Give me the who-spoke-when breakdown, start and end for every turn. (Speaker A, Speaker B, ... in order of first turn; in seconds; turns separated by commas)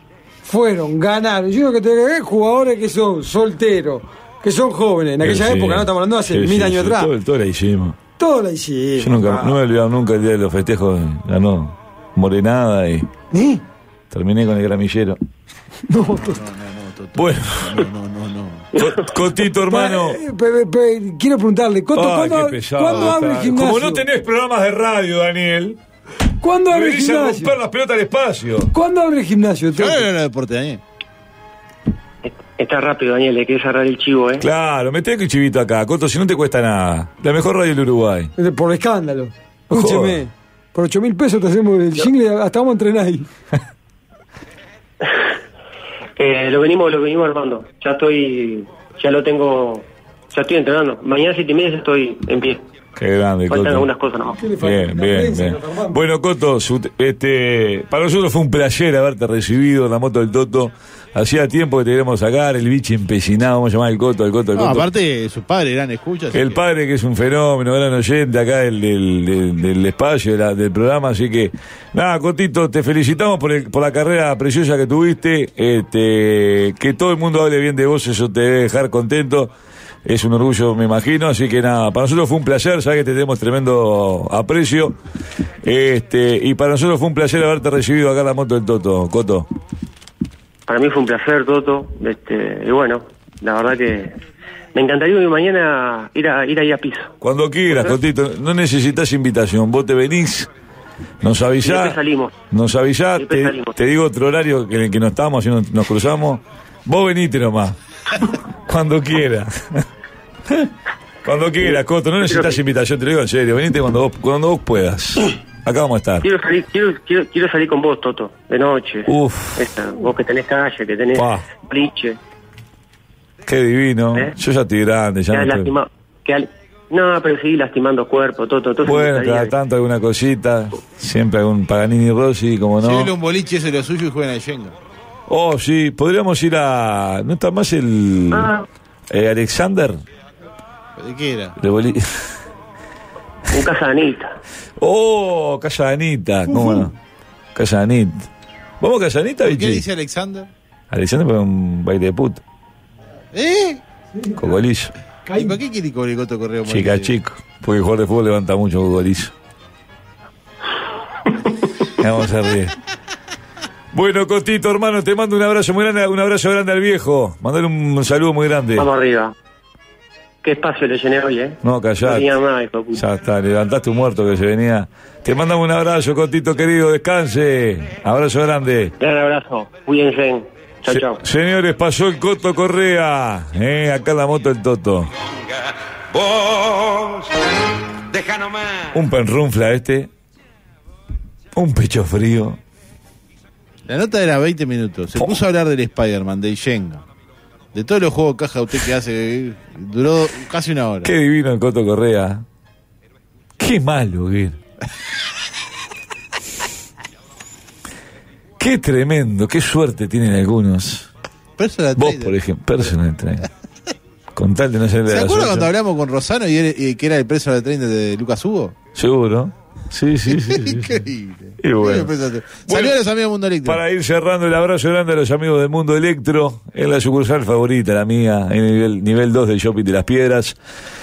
Speaker A: 0.4-7.1, Speaker B: 5.2-8.0, Speaker A: 8.2-9.2, Speaker B: 9.0-13.1, Speaker C: 9.2-9.5, Speaker A: 13.3-13.6, Speaker B: 14.1-15.2, Speaker A: 15.9-16.4, Speaker C: 16.1-18.7, Speaker B: 17.1-17.9, Speaker B: 18.8-20.2, Speaker A: 19.6-24.0, Speaker B: 21.9-25.8, Speaker C: 22.9-23.1, Speaker A: 26.4-27.5, Speaker B: 26.7-28.7, Speaker A: 28.7-30.1, Speaker C: 29.7-30.8, Speaker D: 32.2-34.5, Speaker B: 34.4-38.3, Speaker A: 38.4-43.3, Speaker B: 39.7-40.2, Speaker D: 46.2-52.7, Speaker B: 53.0-53.9, Speaker D: 53.5-54.4, Speaker A: 54.4-56.0, Speaker B: 54.6-64.9, Speaker C: 64.5-66.6, Speaker B: 66.3-79.5, Speaker B: 80.0-85.0, Speaker B: 85.6-89.5, Speaker D: 90.7-94.2, Speaker D: 94.7-97.1, Speaker B: 97.2-100.5, Speaker D: 97.7-98.0, Speaker B: 101.2-109.8, Speaker D: 101.6-102.3, Speaker D: 103.2-103.8, Speaker B: 110.5-110.7, Speaker B: 111.2-116.3, Speaker D: 111.6-112.6, Speaker D: 116.2-122.2, Speaker B: 119.1-119.7, Speaker B: 121.1-121.5, Speaker B: 123.5-125.7, Speaker D: 125.3-129.5, Speaker B: 128.8-133.1, Speaker C: 132.8-134.8, Speaker B: 135.3-138.5, Speaker D: 138.3-138.6, Speaker B: 139.1-140.0, Speaker C: 141.0-141.6, Speaker B: 141.6-142.3, Speaker D: 143.5-144.4, Speaker B: 144.8-146.9, Speaker A: 146.5-146.9, Speaker B: 147.5-148.3, Speaker B: 148.8-149.8, Speaker C: 149.4-150.5, Speaker B: 150.9-152.4, Speaker C: 153.3-153.8, Speaker B: 154.4-154.9, Speaker C: 155.3-157.1, Speaker B: 156.7-159.3, Speaker B: 162.0-162.8, Speaker B: 163.9-168.9, Speaker D: 168.8-169.3, Speaker D: 170.4-173.0, Speaker B: 171.6-172.3, Speaker B: 172.9-178.9, Speaker D: 179.0-181.2, Speaker B: 180.9-185.1, Speaker E: 185.2-187.4, Speaker E: 188.1-189.0, Speaker B: 188.9-190.1, Speaker B: 191.5-192.6, Speaker C: 193.9-197.0, Speaker B: 195.1-195.4, Speaker C: 197.7-201.1, Speaker B: 201.0-202.4, Speaker B: 203.6-204.6, Speaker B: 208.6-211.1, Speaker C: 211.6-212.3, Speaker B: 211.9-213.5, Speaker B: 214.3-215.7, Speaker C: 215.1-218.7, Speaker B: 218.9-221.0, Speaker C: 220.3-223.8, Speaker B: 221.6-222.1, Speaker B: 222.6-223.0, Speaker B: 223.6-230.6